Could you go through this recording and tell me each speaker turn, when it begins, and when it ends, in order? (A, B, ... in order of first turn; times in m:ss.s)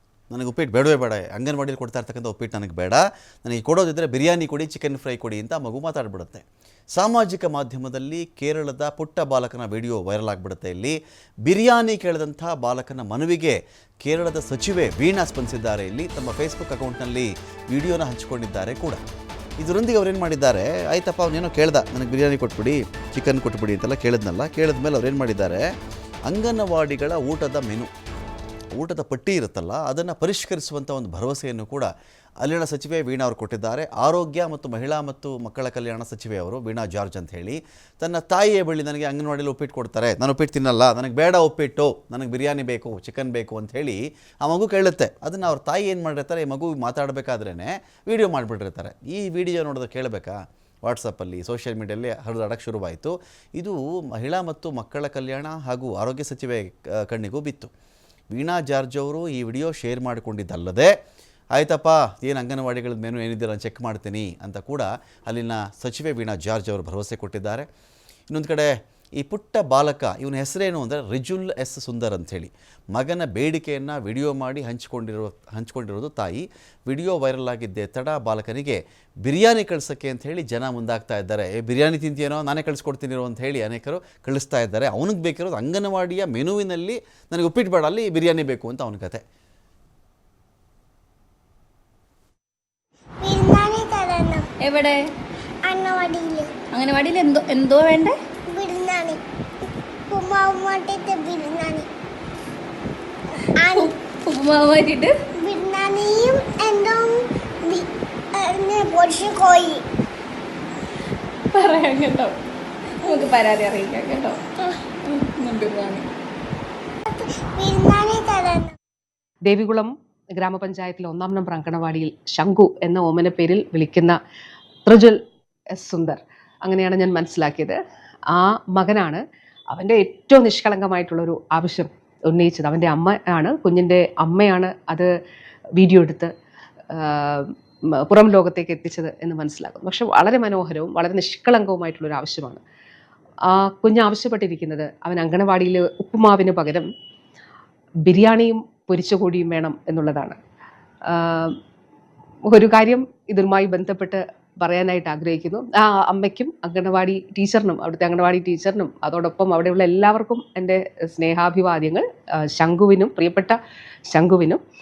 0:00.3-0:06.4 A
0:07.0-0:19.0 A
0:19.6-0:25.6 A
0:26.3-0:27.9 A
0:28.7-0:31.9 A
0:32.4-0:57.7 A
0:58.3-1:00.9 A
1:01.5-1:07.6 A
1:08.3-1:29.2 A
1:33.2-1:34.5 B
1:34.6-1:35.0 C
1:35.6-1:36.5 B
1:36.7-1:38.2 C
1:38.5-1:39.2 B
1:40.1-1:41.9 B
1:43.6-1:43.9 B
1:43.6-1:45.1 C
1:45.4-1:49.8 B
1:51.5-1:52.3 C
1:53.0-1:54.4 C
1:55.1-1:56.0 C
1:57.1-1:58.7 B
1:59.4-2:04.2 D
2:04.8-2:05.2 D
2:05.8-2:07.8 D
2:08.3-2:09.2 D
2:09.7-2:15.1 D
2:15.8-2:16.3 D
2:16.9-2:17.5 D
2:18.0-2:22.6 D
2:23.4-2:26.9 D
2:28.1-2:30.4 D
2:31.1-2:31.6 D
2:32.5-2:43.6 D
2:44.1-2:44.6 D